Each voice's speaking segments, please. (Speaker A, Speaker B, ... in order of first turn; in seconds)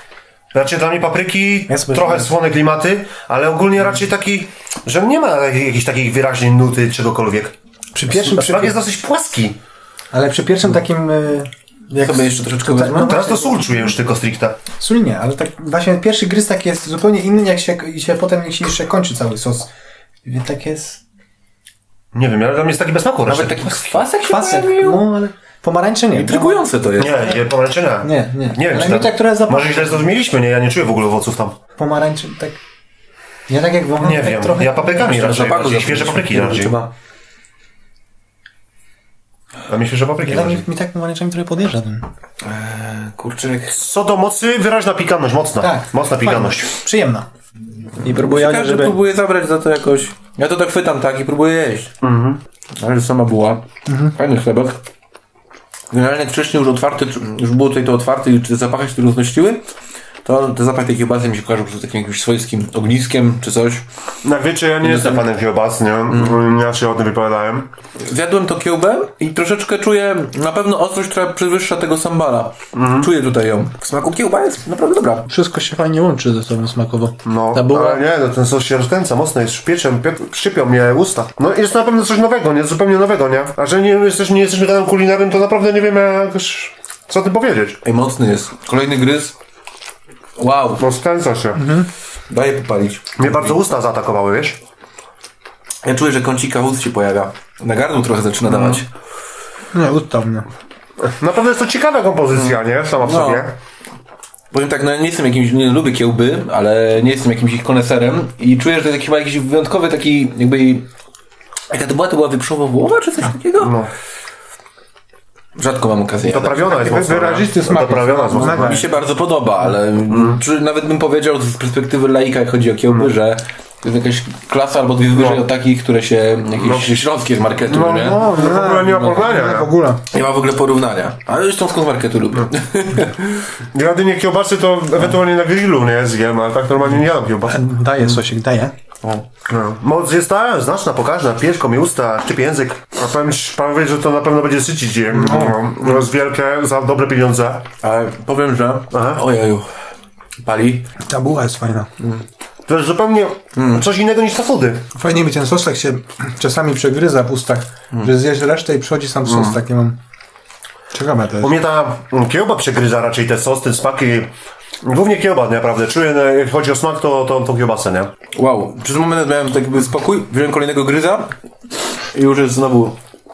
Speaker A: 0.5-7.5, 8.1-9.6, 13.1-14.6, 22.1-24.0, 27.0-31.6, 34.0-36.8, 39.7-40.7, 43.7-46.7, 52.0-52.4, 64.2-67.7, 72.7-73.1, 77.2-87.8, 90.8-91.6, 93.2-94.6, 98.5-98.8, 101.0-103.5, 113.6-113.9, 116.2-118.9, 120.1-120.4, 125.2-125.4, 126.6-127.0, 127.6-129.7, 133.7-137.7, 139.5-147.7, 148.9-149.2, 152.7-154.8, 159.2-159.6, 161.4-164.3, 164.8-168.1
Speaker B: 1.7-2.3, 7.9-8.8, 10.1-13.9, 14.8-19.7, 20.2-21.0, 24.2-26.7, 28.0-30.1, 31.8-32.6, 33.5-35.3, 40.2-42.0, 45.6-47.3, 48.0-49.0, 53.9-54.1, 75.3-77.2, 91.5-91.9, 99.7-100.5, 116.5-118.9, 128.0-130.0, 137.5-138.7, 145.2-145.6, 151.0-151.9, 154.9-160.0, 160.9-161.6
Speaker C: 12.0-13.2, 23.3-25.1, 26.1-27.2, 35.0-36.9, 42.4-43.8, 48.1-51.9, 52.8-54.8, 55.9-59.7, 60.2-63.9, 64.8-65.3, 66.1-66.4, 68.0-75.3, 77.5-78.0, 87.8-89.4, 90.4-90.8, 92.3-93.6, 95.8-98.9, 102.3-103.5, 104.5-110.9, 111.7-113.8, 115.6-116.6, 118.3-128.3, 130.1-133.4, 147.8-149.7, 150.4-150.9, 152.0-152.3, 153.6-153.8, 168.3-171.3, 172.1-173.0